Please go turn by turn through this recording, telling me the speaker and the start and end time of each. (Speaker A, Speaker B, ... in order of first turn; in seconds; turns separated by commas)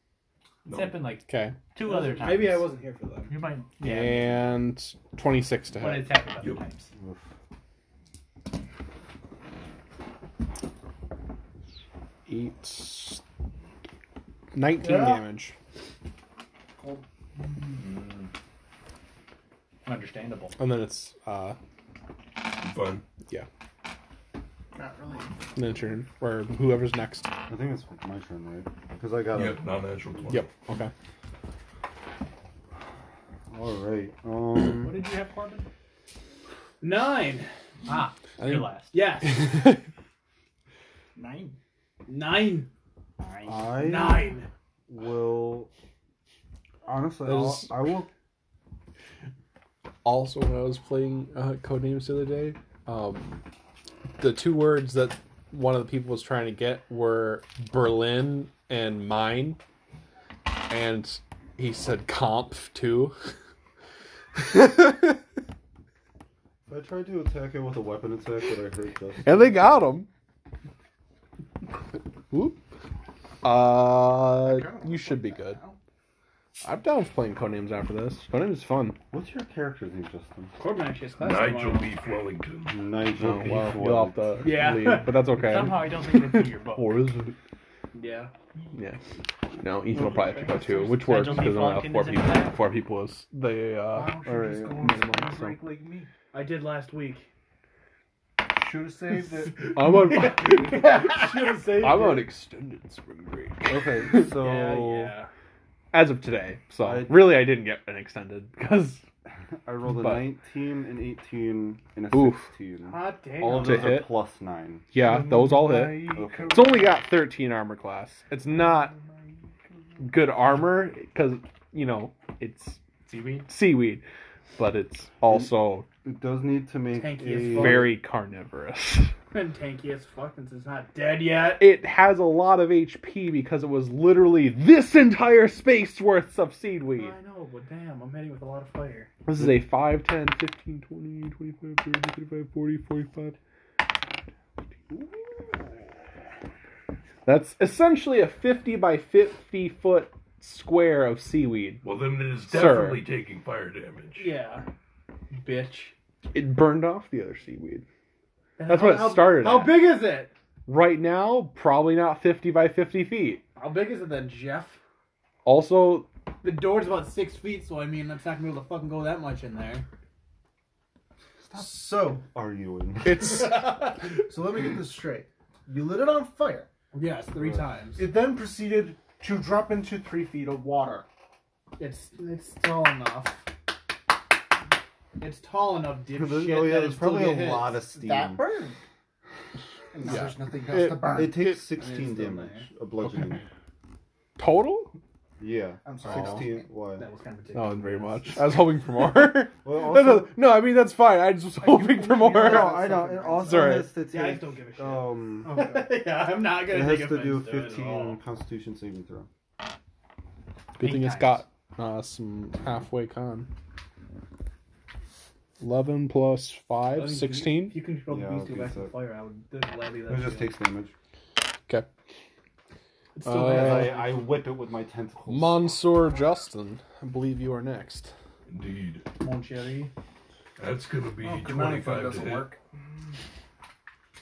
Speaker A: 0.6-1.0, Speaker B: 0.7-2.7, Speaker C: 1.3-1.6, Speaker D: 1.8-3.3, Speaker B: 3.3-4.3, Speaker C: 3.8-6.1, Speaker B: 5.8-6.9, Speaker E: 7.0-7.3, Speaker C: 12.3-13.2, Speaker C: 14.5-15.5, Speaker F: 14.8-15.2, Speaker F: 16.8-17.0, Speaker B: 19.8-20.6, Speaker C: 20.6-21.6, Speaker A: 22.6-23.0, Speaker F: 24.7-25.4, Speaker C: 25.5-27.3, Speaker E: 27.5-29.6, Speaker A: 29.3-30.4, Speaker C: 30.3-30.9, Speaker E: 33.5-35.0, Speaker B: 34.8-35.7, Speaker D: 36.8-37.5, Speaker B: 37.9-38.9, Speaker C: 38.4-39.8, Speaker D: 38.9-39.5, Speaker F: 41.1-41.5, Speaker D: 42.1-42.7, Speaker B: 43.2-43.6, Speaker E: 43.5-44.3, Speaker D: 43.7-44.5, Speaker E: 44.9-45.7, Speaker E: 46.8-48.1, Speaker C: 47.2-47.7, Speaker C: 50.0-53.4, Speaker C: 54.2-59.6, Speaker C: 60.7-63.1, Speaker C: 64.3-65.2, Speaker E: 66.7-69.8, Speaker C: 69.2-70.1, Speaker C: 72.3-72.6, Speaker C: 73.4-75.6, Speaker F: 74.2-75.8, Speaker C: 76.6-79.0, Speaker E: 79.1-80.5, Speaker D: 80.6-81.9, Speaker A: 81.2-82.8, Speaker E: 82.7-84.7, Speaker C: 83.1-87.3, Speaker D: 84.4-85.4, Speaker B: 85.3-87.0, Speaker D: 87.9-88.3, Speaker C: 88.7-89.0, Speaker C: 89.6-95.7, Speaker D: 89.9-90.6, Speaker F: 90.6-90.9, Speaker B: 90.9-92.6, Speaker F: 93.9-96.1, Speaker E: 94.2-94.8, Speaker D: 96.3-97.3, Speaker F: 98.4-100.3, Speaker C: 99.6-104.3, Speaker D: 99.8-102.3, Speaker E: 103.7-105.2, Speaker D: 104.4-105.3, Speaker C: 105.9-109.0, Speaker E: 106.8-107.5, Speaker E: 109.6-114.9, Speaker C: 109.8-110.3, Speaker C: 112.1-112.5, Speaker D: 112.8-114.0, Speaker C: 113.5-114.1, Speaker C: 114.9-118.9, Speaker F: 115.0-117.0, Speaker E: 116.1-116.8, Speaker F: 118.5-119.2, Speaker C: 120.0-122.8, Speaker B: 123.0-123.5, Speaker C: 123.5-124.0, Speaker C: 124.6-125.9, Speaker E: 125.3-128.0, Speaker D: 126.9-127.9, Speaker C: 127.5-129.1, Speaker D: 129.3-131.6, Speaker C: 131.6-137.1, Speaker D: 136.9-139.1, Speaker C: 139.2-143.4, Speaker C: 147.2-151.8, Speaker A: 151.8-154.3, Speaker C: 152.4-153.1, Speaker D: 154.2-154.7, Speaker D: 155.3-155.9, Speaker C: 156.3-157.8, Speaker D: 158.6-160.3, Speaker C: 158.7-159.8, Speaker C: 160.7-163.4, Speaker D: 163.5-164.8, Speaker C: 165.4-166.1, Speaker D: 166.4-169.8, Speaker E: 171.4-173.4, Speaker F: 171.6-171.9, Speaker C: 173.0-173.9, Speaker D: 173.2-173.9, Speaker F: 173.6-176.7, Speaker D: 176.9-178.0, Speaker E: 177.4-177.6, Speaker F: 177.9-181.1, Speaker D: 181.8-183.4, Speaker D: 185.2-187.8, Speaker E: 186.1-188.5, Speaker F: 187.9-188.8, Speaker F: 189.9-191.4, Speaker C: 190.1-191.5, Speaker E: 191.1-193.4, Speaker D: 191.6-192.7, Speaker C: 194.4-194.9, Speaker E: 195.4-197.0, Speaker F: 195.8-196.7, Speaker D: 197.0-198.5, Speaker C: 197.5-202.7, Speaker E: 199.5-200.4, Speaker F: 201.6-203.7, Speaker E: 202.4-205.5, Speaker C: 203.4-203.9, Speaker D: 203.9-208.2, Speaker F: 205.4-205.9, Speaker E: 206.6-209.3, Speaker C: 210.8-213.5, Speaker B: 210.8-211.4, Speaker C: 215.6-217.8, Speaker D: 216.9-220.5, Speaker E: 218.1-219.0, Speaker E: 220.1-220.9, Speaker D: 223.2-224.2, Speaker C: 223.2-224.0, Speaker E: 223.3-225.9, Speaker C: 225.3-228.1, Speaker A: 228.5-229.0, Speaker D: 229.2-229.9, Speaker A: 230.6-232.5, Speaker F: 231.2-232.5, Speaker D: 231.7-232.6